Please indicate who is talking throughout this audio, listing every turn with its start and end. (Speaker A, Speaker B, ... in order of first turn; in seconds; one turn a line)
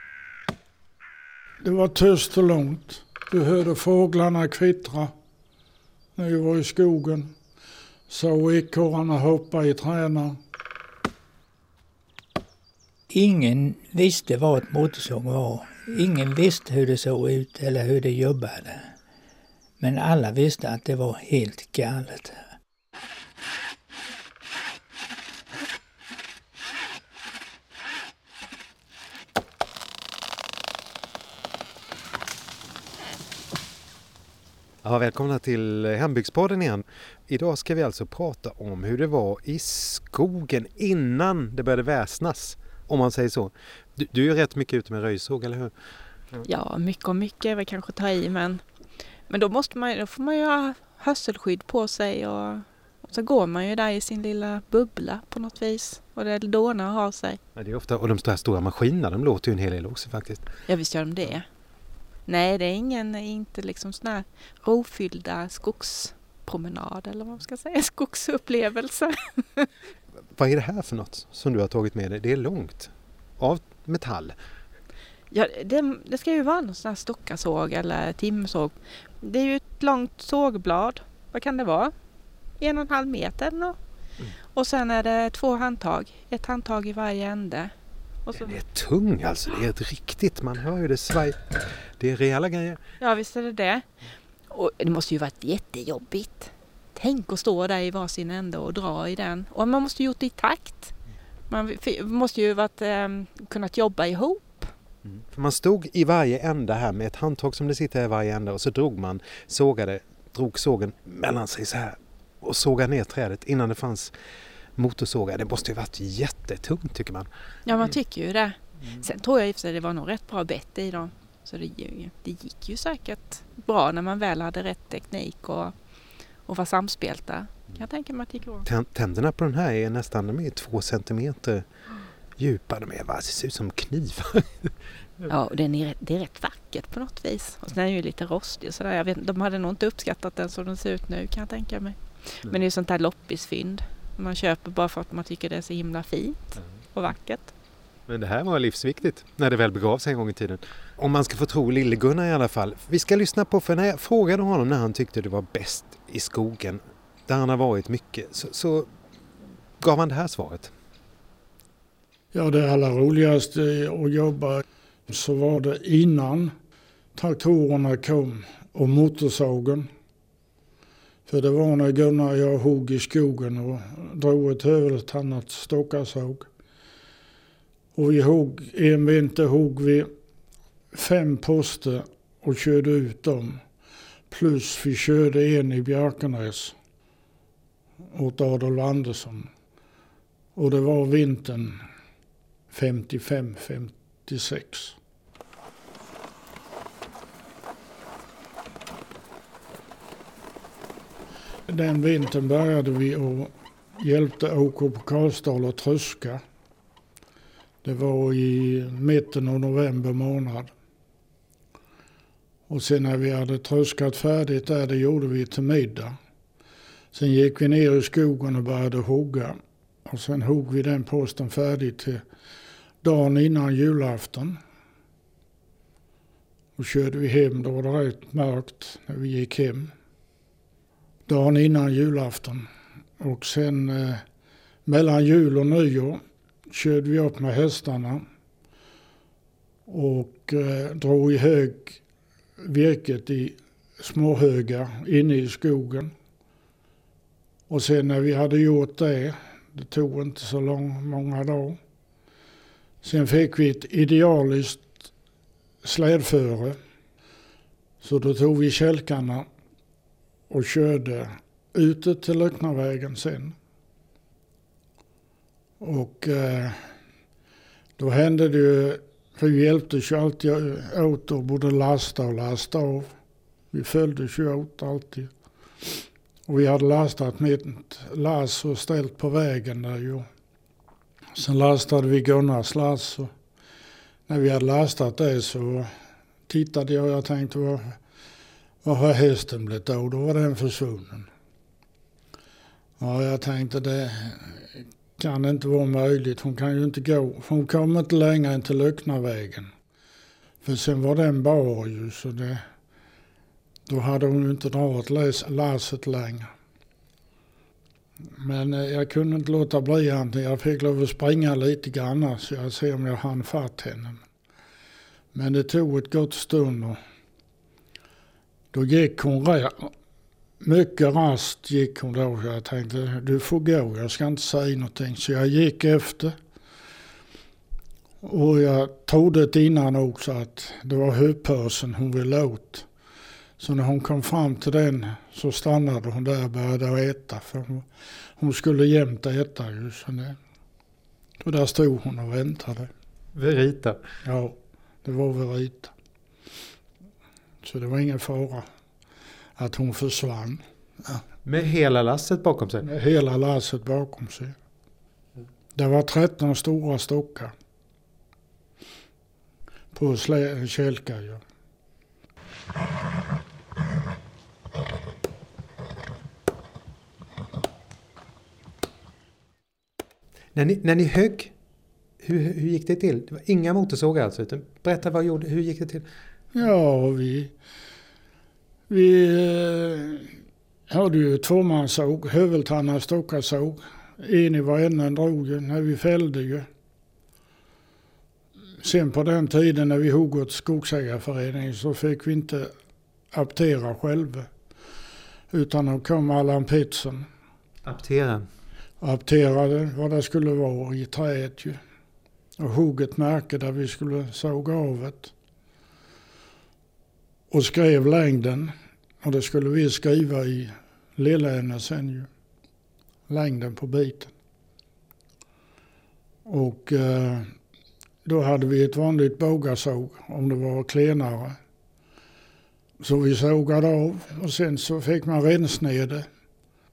Speaker A: 1.6-5.1
Speaker A: 6.2-7.3
Speaker A: 8.1-10.4
Speaker B: 13.1-18.9
Speaker B: 19.8-22.4
Speaker C: 34.8-45.7
Speaker D: 46.4-48.6
Speaker D: 49.3-57.4
Speaker C: 57.5-60.4
Speaker D: 60.7-61.5
Speaker D: 62.3-69.7
Speaker C: 70.3-74.3
Speaker D: 75.3-81.9
Speaker D: 82.6-83.8
Speaker D: 84.5-87.7
Speaker D: 88.2-88.6
Speaker C: 88.3-92.8
Speaker D: 93.0-93.9
Speaker D: 94.5-100.9
Speaker D: 101.5-104.7
Speaker C: 105.0-114.1
Speaker C: 114.8-117.3
Speaker D: 117.7-125.7
Speaker D: 126.5-128.7
Speaker C: 128.7-131.6
Speaker C: 132.4-135.3
Speaker D: 135.3-147.5
Speaker C: 148.1-158.9
Speaker C: 159.8-160.7
Speaker A: 162.3-166.5
Speaker A: 167.2-169.9
Speaker A: 171.3-176.5
Speaker A: 177.9-180.1
Speaker A: 180.9-183.6
Speaker A: 184.3-186.8
Speaker A: 188.1-189.5
Speaker A: 190.5-191.8
Speaker A: 192.7-194.9
Speaker A: 201.7-206.4
Speaker A: 207.8-210.7
Speaker A: 212.7-216.2
Speaker A: 217.1-222.2
Speaker A: 223.0-224.6
Speaker A: 226.8-229.9
Speaker A: 231.3-232.7
Speaker A: 233.2-234.2
Speaker A: 234.8-238.2
Speaker A: 239.9-242.0
Speaker A: 242.6-246.1
Speaker A: 247.7-251.8
Speaker A: 253.0-255.0
Speaker A: 255.8-256.8
Speaker A: 258.0-259.4
Speaker A: 260.5-263.6
Speaker A: 265.8-266.9
Speaker A: 268.0-273.1
Speaker A: 273.7-275.3
Speaker A: 276.5-280.3
Speaker A: 281.3-283.3
Speaker A: 284.3-285.9
Speaker A: 286.5-288.0
Speaker A: 288.8-291.3
Speaker A: 293.0-299.7
Speaker A: 300.6-302.6
Speaker A: 303.9-306.5
Speaker A: 308.4-314.2
Speaker A: 315.3-317.0
Speaker A: 318.7-319.9
Speaker A: 320.6-326.4
Speaker A: 328.2-332.9
Speaker A: 333.6-340.4
Speaker A: 341.4-342.9
Speaker C: 343.3-344.0
Speaker A: 344.2-345.9
Speaker A: 347.6-348.6
Speaker A: 349.6-351.2
Speaker C: 351.4-352.9
Speaker A: 352.8-354.5
Speaker A: 355.7-357.5
Speaker A: 359.9-361.4
Speaker C: 370.5-371.5
Speaker C: 372.2-376.1
Speaker A: 376.5-377.5
Speaker A: 378.9-380.4
Speaker A: 380.9-386.7
Speaker A: 388.8-392.7
Speaker A: 393.3-394.5
Speaker A: 395.5-397.3
Speaker C: 397.8-398.4
Speaker A: 399.0-401.8
Speaker A: 402.6-405.3
Speaker A: 407.5-412.3
Speaker A: 413.3-414.3
Speaker A: 416.4-417.5
Speaker A: 418.2-421.6
Speaker A: 423.0-426.2